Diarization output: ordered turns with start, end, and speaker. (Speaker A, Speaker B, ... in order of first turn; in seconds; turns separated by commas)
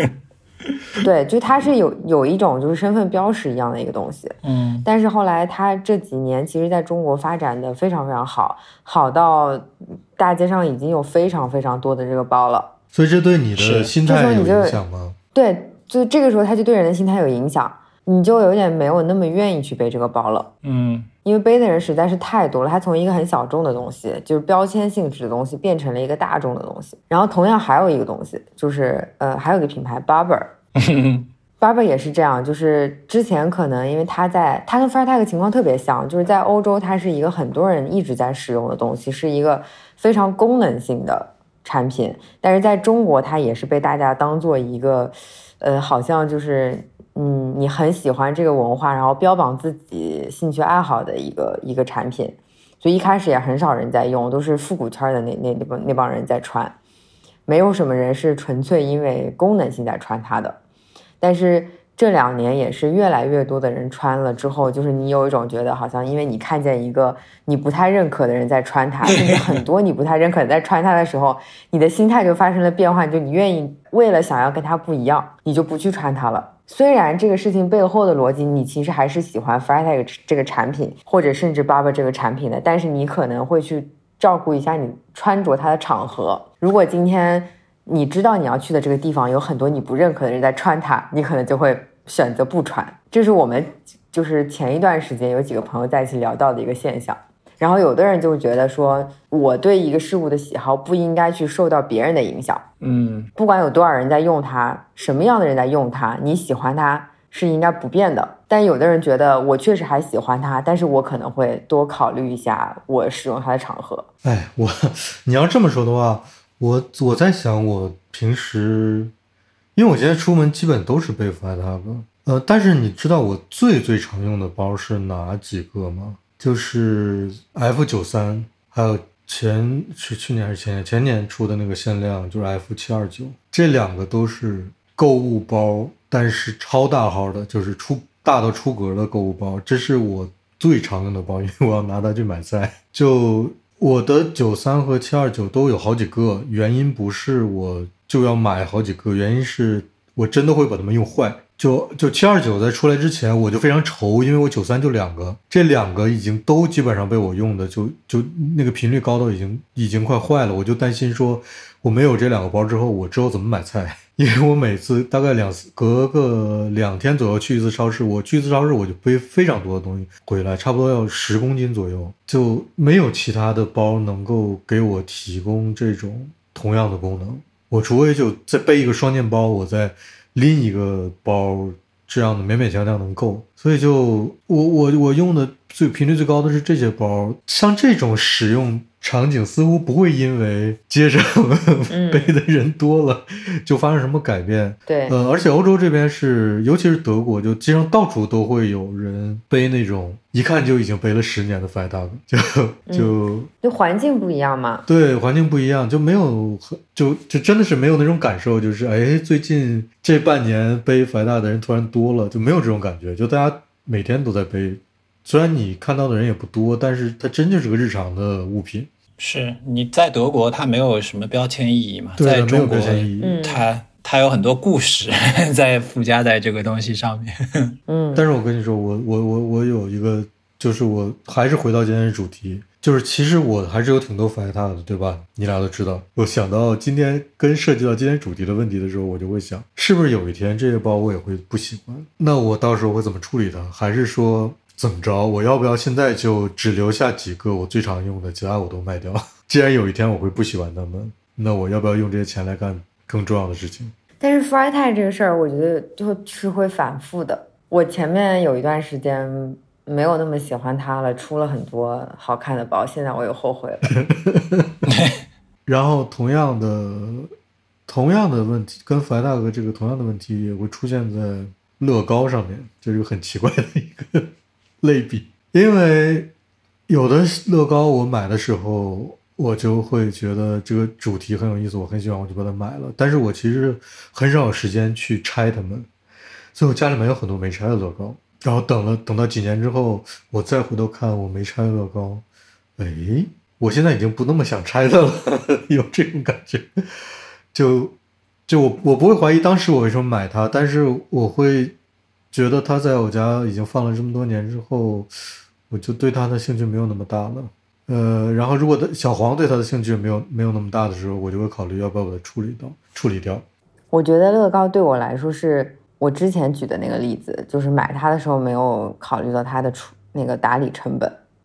Speaker A: 1.0-12.7, Speaker B: 4.4-4.9, Speaker C: 12.9-15.2, Speaker B: 13.6-13.9, Speaker A: 14.0-14.8, Speaker A: 15.3-20.5, Speaker B: 20.6-21.1, Speaker A: 21.2-30.5, Speaker B: 30.8-31.3, Speaker A: 31.6-56.8, Speaker A: 57.5-60.6, Speaker A: 61.2-102.7, Speaker B: 69.2-69.5, Speaker B: 102.8-103.3, Speaker A: 103.4-114.1, Speaker C: 114.2-119.1, Speaker C: 119.8-203.5, Speaker A: 191.9-192.3, Speaker A: 194.9-195.2, Speaker A: 202.9-204.9, Speaker C: 204.9-218.9, Speaker B: 219.2-227.8, Speaker C: 222.2-223.4, Speaker A: 223.2-223.7, Speaker A: 227.9-228.3, Speaker C: 228.2-253.9, Speaker A: 254.2-263.9, Speaker C: 264.0-264.8, Speaker B: 264.9-265.2, Speaker C: 265.7-267.3, Speaker C: 267.9-274.3, Speaker C: 274.8-276.3, Speaker C: 276.9-285.9, Speaker C: 286.6-292.2, Speaker C: 292.8-296.7, Speaker C: 297.5-297.9, Speaker C: 298.5-301.8, Speaker C: 302.3-305.1, Speaker C: 305.7-313.4, Speaker A: 313.9-321.2